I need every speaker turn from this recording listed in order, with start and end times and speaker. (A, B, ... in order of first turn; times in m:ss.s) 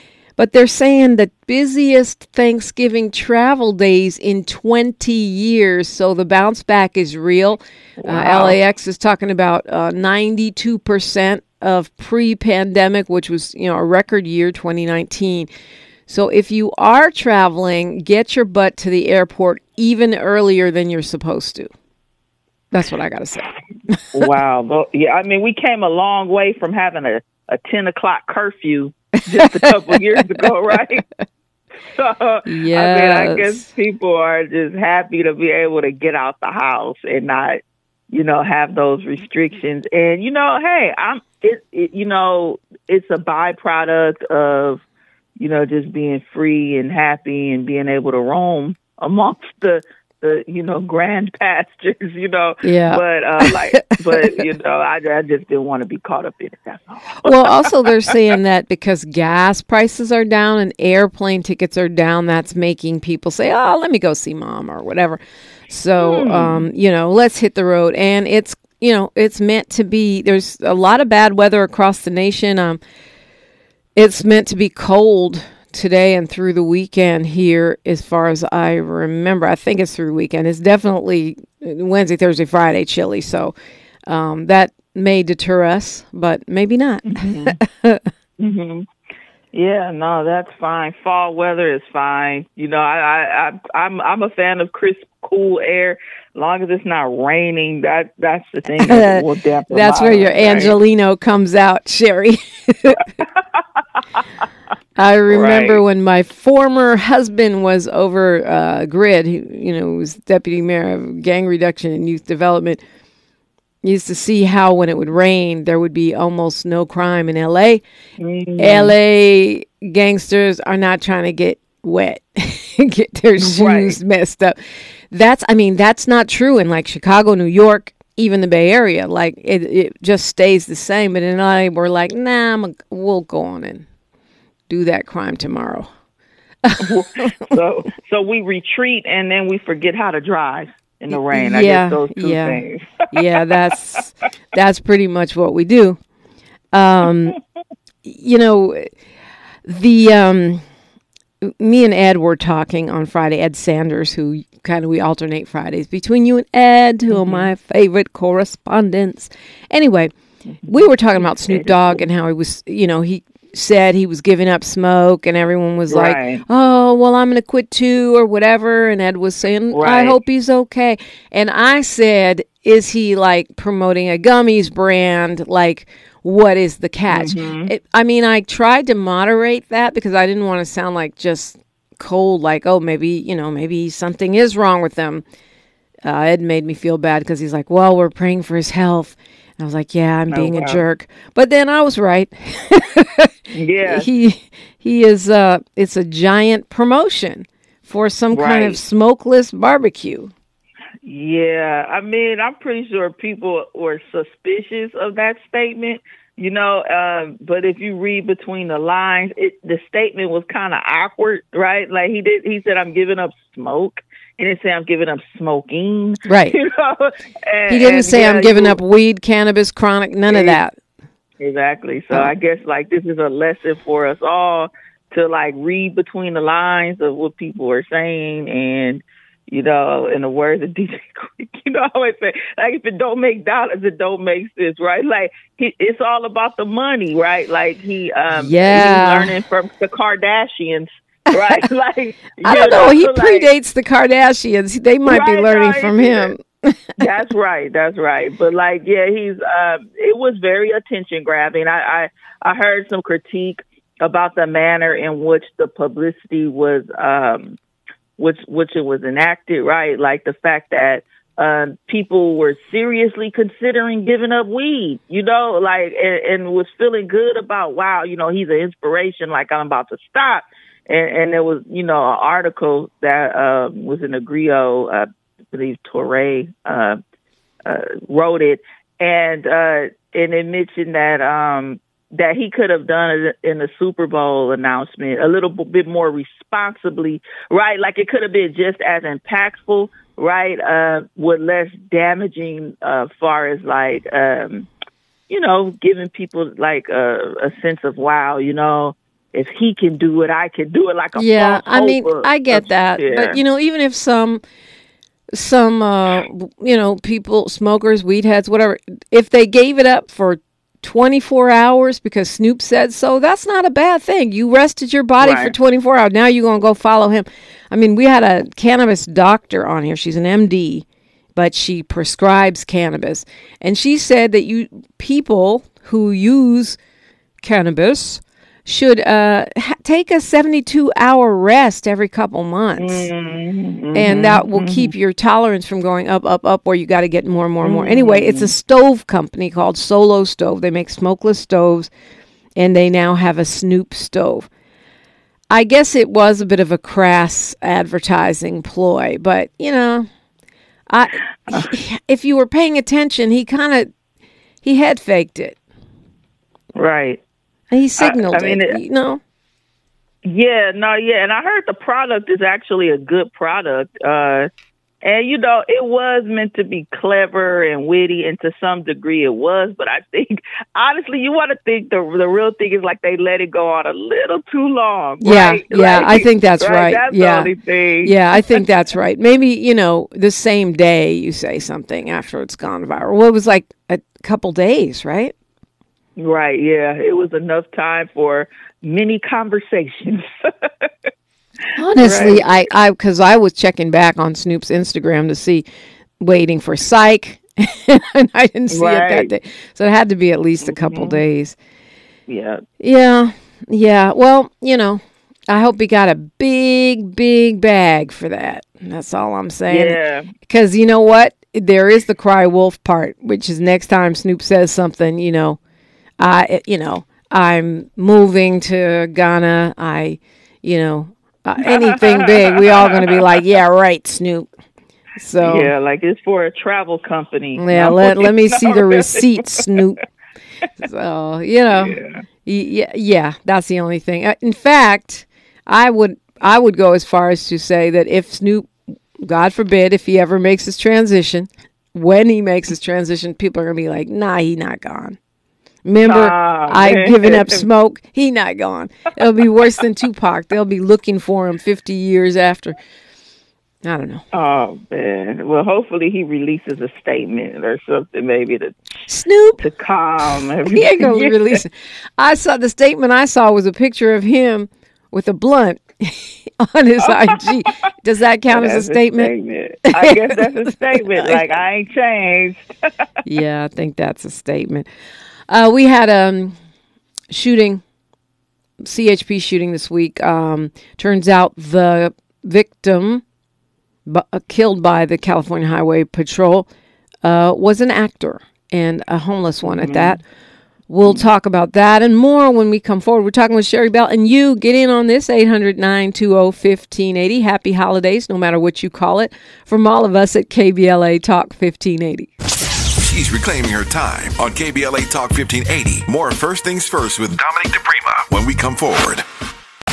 0:00.4-0:15.5 A
0:08.0-0:08.5 B
0:16.1-0:21.7 A
0:22.7-0:24.2 A
0:24.1-0:31.0 B
0:29.3-0:30.4 A
0:31.8-0:37.6 B
0:32.4-0:33.6 A
0:38.1-0:44.8 B
0:45.4-0:58.1 B
0:52.6-0:54.2 A
0:57.2-1:12.8 A
1:06.0-1:06.7 B
1:13.9-1:23.5 A
1:24.1-1:28.1 A
1:27.1-1:27.6 B
1:28.4-1:28.8 B
1:29.5-1:40.8 B
1:38.8-1:43.1 A
1:45.0-1:52.8 A
1:45.3-1:45.8 B
1:53.8-1:57.8 A
1:58.2-1:58.9 B
1:58.6-2:04.6 A
2:03.4-2:04.0 B
2:05.1-2:13.8 A
2:14.7-2:15.9 A
2:16.6-2:17.3 A
2:16.8-2:24.0 B
2:21.1-2:26.0 A
2:26.7-2:27.4 A
2:28.0-2:28.9 A
2:29.6-2:30.6 A
2:31.4-2:40.1 A
2:37.1-2:37.5 B
2:40.6-2:42.0 B
2:40.6-3:05.2 A
2:45.9-2:46.4 B
2:49.7-2:50.2 B
2:57.1-2:57.7 B
3:06.0-3:13.3 A
3:10.3-3:10.8 B
3:13.5-3:14.1 B
3:13.8-3:20.3 A
3:18.3-3:18.8 B
3:21.0-3:38.8 B
3:36.2-3:36.6 A
3:37.7-3:40.8 A
3:40.3-3:40.6 B
3:41.4-4:03.5 B
3:58.3-3:59.3 A
4:02.4-4:07.1 A
4:05.0-4:06.3 B
4:07.0-4:17.6 B
4:18.2-4:37.0 B
4:37.6-4:54.7 B
4:55.3-5:03.4 B
5:01.2-5:04.4 A
5:05.3-5:20.8 A
5:15.2-5:15.5 B
5:21.4-5:26.8 A
5:27.4-5:33.1 A
5:32.8-5:34.9 B
5:33.9-5:41.9 A
5:37.6-5:38.5 B
5:42.6-5:44.5 A
5:45.5-5:50.1 A
5:50.9-5:53.9 A
5:54.6-5:55.6 A
5:56.8-5:57.2 B
5:57.7-5:59.2 A
5:58.0-5:58.8 B
6:00.2-6:04.5 B
6:05.0-6:18.6 B
6:15.2-6:17.5 A
6:18.0-6:25.3 A
6:26.2-6:30.9 B
6:31.8-6:35.6 A
6:32.0-6:32.4 B
6:36.2-6:41.6 A
6:38.7-6:39.3 B
6:40.6-6:41.2 B
6:42.3-6:42.6 B
6:42.8-6:55.6 A
6:49.7-6:50.3 B
6:56.2-7:04.5 A
7:01.6-7:03.2 B
7:05.2-7:05.7 A
7:05.4-7:09.6 B
7:07.6-7:10.0 A
7:10.8-7:25.2 A
7:11.7-7:12.2 B
7:25.8-7:32.8 A
7:26.0-7:27.6 B
7:33.8-7:34.2 A
7:34.3-7:38.8 B
7:39.1-7:39.6 A
7:39.6-7:41.6 B
7:40.6-7:49.3 A
7:47.1-7:47.7 B
7:48.5-7:52.6 B
7:49.9-7:51.4 A
7:53.2-7:54.8 A
7:55.5-7:56.6 A
7:57.3-7:57.8 A
7:58.8-8:03.2 A
8:04.0-8:06.7 A
8:07.2-8:10.2 A
8:09.6-8:10.2 B
8:10.9-8:22.3 A
8:22.9-8:29.2 C